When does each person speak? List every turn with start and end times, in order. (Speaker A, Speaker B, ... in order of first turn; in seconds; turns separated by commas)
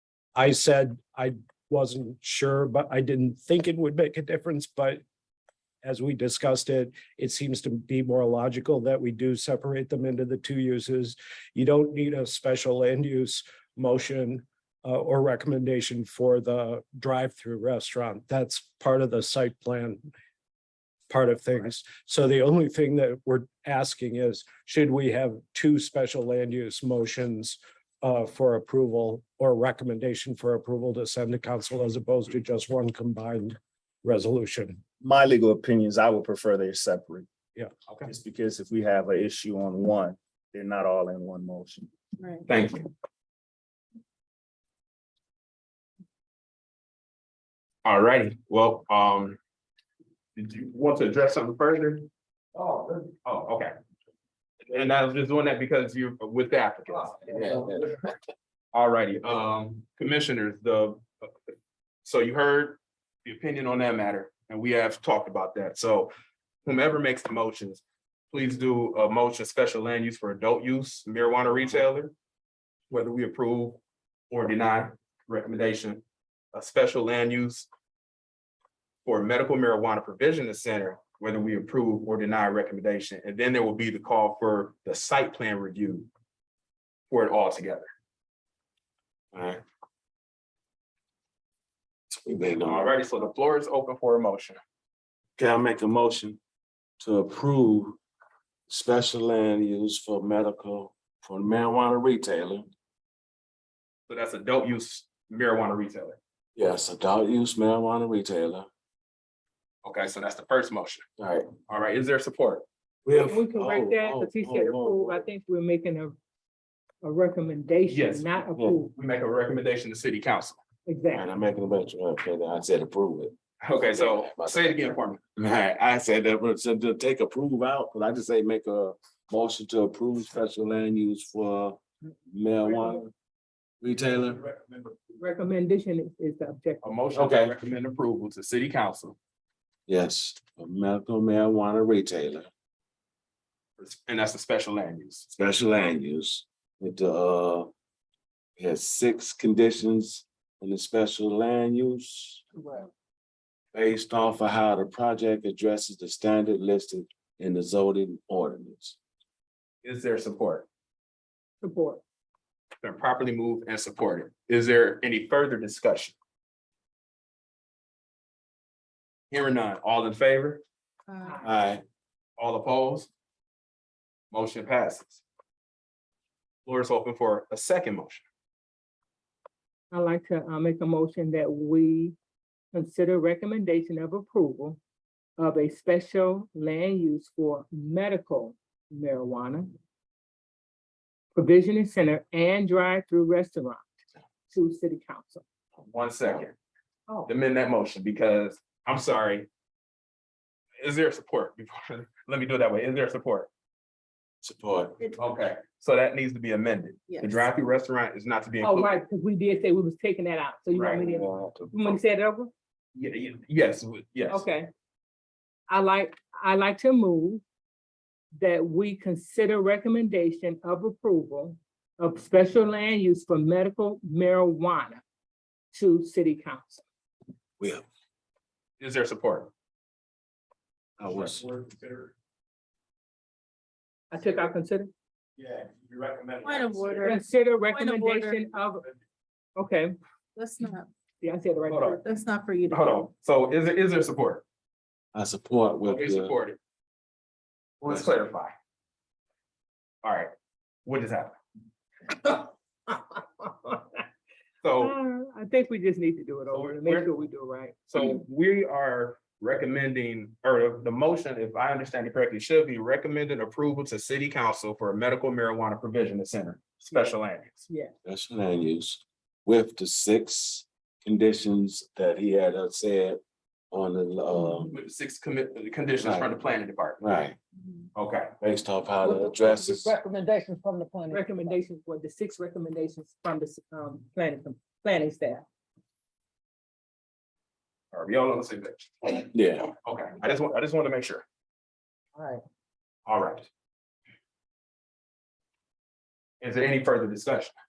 Speaker A: 0.4-5.0, Speaker A: 5.8-20.1, Speaker A: 21.1-34.8, Speaker B: 35.0-37.3, Speaker B: 38.0-41.9, Speaker C: 42.2-42.4, Speaker D: 42.5-42.9, Speaker D: 47.9-49.4, Speaker D: 50.4-52.1, Speaker E: 52.6-52.8, Speaker D: 53.2-53.7, Speaker D: 54.7-57.4, Speaker F: 57.4-57.7, Speaker D: 58.7-61.5, Speaker D: 62.0-66.1, Speaker D: 66.7-72.1, Speaker D: 72.9-76.0, Speaker D: 76.5-77.7, Speaker D: 79.0-86.1, Speaker D: 87.1-87.9, Speaker F: 89.3-89.6, Speaker F: 92.1-92.9, Speaker D: 92.6-94.6, Speaker F: 95.4-96.4, Speaker F: 97.0-98.0, Speaker F: 98.7-102.7, Speaker D: 104.1-106.2, Speaker F: 106.6-108.7, Speaker D: 109.8-111.0, Speaker F: 111.2-111.5, Speaker D: 111.7-112.7, Speaker F: 113.1-115.2, Speaker G: 113.1-116.2, Speaker G: 117.0-118.9, Speaker D: 117.9-118.3, Speaker D: 118.9-120.6, Speaker G: 120.9-121.3, Speaker F: 121.1-124.8, Speaker D: 123.6-125.2, Speaker F: 125.4-133.1, Speaker F: 133.8-134.5, Speaker G: 135.2-136.8, Speaker D: 136.8-139.2, Speaker F: 137.1-137.6, Speaker F: 139.9-142.5, Speaker D: 143.8-145.3, Speaker F: 145.3-147.7, Speaker F: 148.6-152.4, Speaker F: 153.7-159.0, Speaker D: 159.8-160.7, Speaker G: 161.6-162.0, Speaker D: 162.8-166.1, Speaker D: 169.3-170.6, Speaker C: 171.1-171.5, Speaker F: 171.4-171.8, Speaker D: 172.4-173.1, Speaker D: 174.3-175.2, Speaker D: 176.7-178.2, Speaker G: 179.9-182.2, Speaker G: 182.7-184.8, Speaker G: 185.4-189.7, Speaker G: 191.3-193.8, Speaker G: 194.5-195.4, Speaker D: 195.8-196.6, Speaker D: 197.3-199.5, Speaker D: 200.8-203.5, Speaker F: 204.4-205.0, Speaker D: 205.2-209.0, Speaker C: 207.1-207.5, Speaker G: 208.6-212.5, Speaker D: 210.7-211.1, Speaker F: 211.1-212.0, Speaker D: 212.9-214.4, Speaker G: 214.3-214.7, Speaker G: 215.7-217.4, Speaker G: 218.4-225.0, Speaker G: 225.7-226.8, Speaker F: 227.6-227.8, Speaker D: 228.8-229.5, Speaker F: 231.0-231.5, Speaker G: 234.1-234.9, Speaker C: 236.4-238.5, Speaker G: 237.0-238.9, Speaker G: 239.6-240.0, Speaker C: 240.4-240.9, Speaker G: 241.2-242.0, Speaker D: 241.7-242.0, Speaker C: 241.8-243.1, Speaker D: 242.7-244.4, Speaker F: 245.1-246.3, Speaker D: 245.9-246.6, Speaker D: 247.8-248.5, Speaker D: 250.0-250.3, Speaker D: 250.9-251.4, Speaker G: 252.1-254.0, Speaker D: 254.6-254.9, Speaker G: 254.8-257.9, Speaker D: 256.5-257.1, Speaker D: 257.9-267.7, Speaker G: 267.7-267.9, Speaker F: 268.1-273.2, Speaker F: 273.7-274.7, Speaker D: 274.7-277.0, Speaker F: 276.0-276.4, Speaker F: 277.0-277.4, Speaker D: 277.9-278.3, Speaker F: 278.4-279.9, Speaker E: 279.0-281.6, Speaker G: 281.1-285.4, Speaker D: 287.9-289.3, Speaker F: 289.3-289.7, Speaker D: 289.8-291.2, Speaker E: 292.2-292.4, Speaker D: 293.1-293.5, Speaker D: 296.4-297.5